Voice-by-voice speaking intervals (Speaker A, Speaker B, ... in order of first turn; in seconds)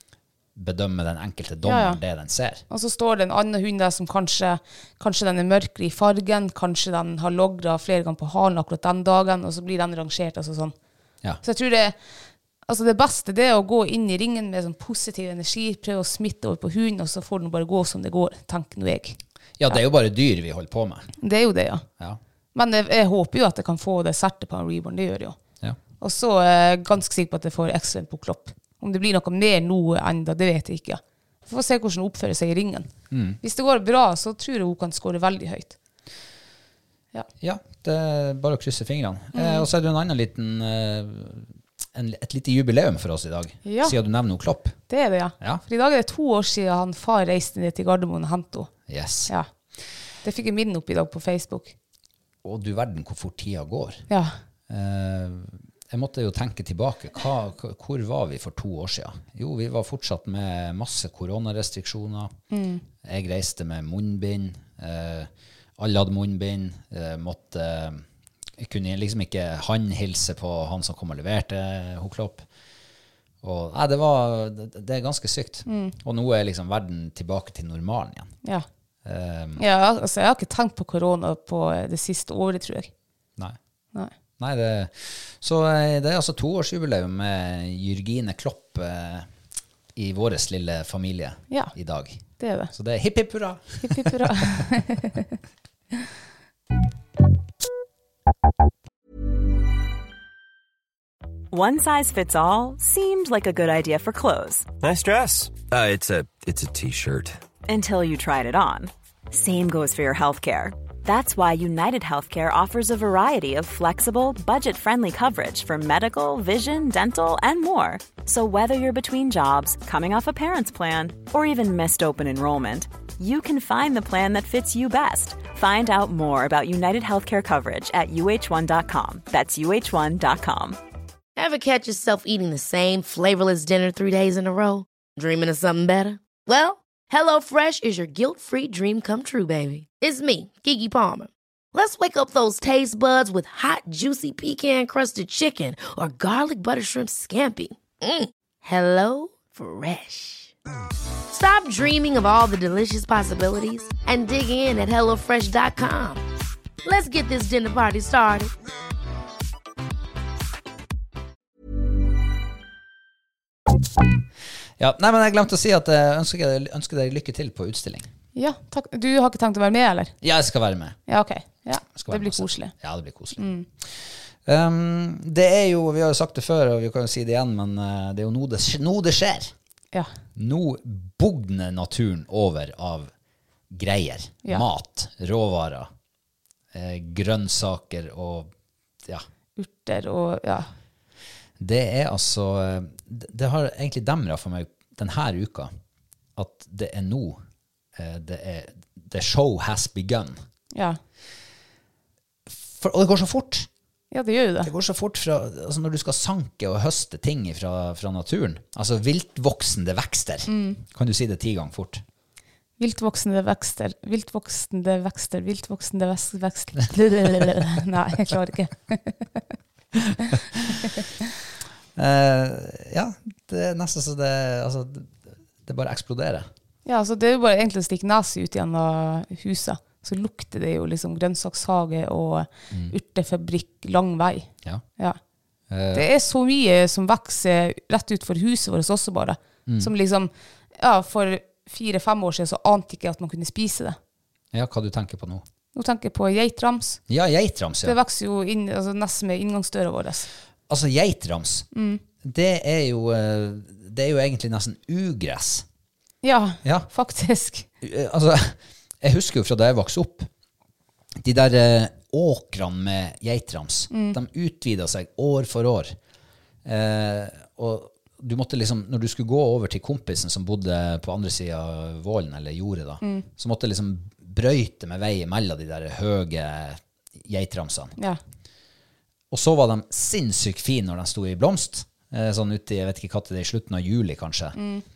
Speaker A: 0.5-2.6, 19.6-21.1, 33.1-33.4, 37.4-44.8, 48.9-49.3, 52.4-54.0, 54.7-62.3, 63.0-68.0, 68.6-72.4, 73.4-78.3, 79.0-79.6, 84.4-89.3, 89.9-94.6, 164.8-168.1, 170.2-171.0, 171.9-179.5, 180.3-183.1, 183.7-185.9, 186.7-188.5, 191.6-195.7, 196.3-197.4, 197.9-200.4, 202.5-203.7, 204.6-212.0, 219.9-220.9, 221.9-226.5, 235.7-236.1, 239.7-239.9, 244.5-245.4, 247.1-248.0, 250.7-251.7, 252.2-255.6, 256.6-256.9, 257.8-260.3, 261.2-265.9, 266.6-277.9, 279.3-284.6
Speaker B: 1.6-2.0, 2.7-10.7, 11.4-11.9, 12.7-19.2, 21.2-21.9, 22.5-25.4, 26.0-35.8, 39.3-39.7, 43.6-44.0, 44.9-48.7, 50.2-51.7, 62.5-62.8, 75.7-76.0, 79.6-82.9, 92.4-92.7, 93.8-95.3, 168.3-170.1, 171.1-172.7, 173.4-173.7, 189.6-190.7, 200.7-201.0, 204.1-204.7, 210.5-210.8, 212.8-219.2, 226.8-235.2, 235.9-244.0, 245.7-247.0, 247.8-250.3, 251.7-252.0, 256.2-257.7, 263.9-264.2, 273.0-273.3, 284.5-284.8
Speaker C: 101.5-104.7, 107.7-130.8
Speaker D: 104.8-107.4
Speaker E: 131.4-150.5, 151.3-156.2, 156.8-158.5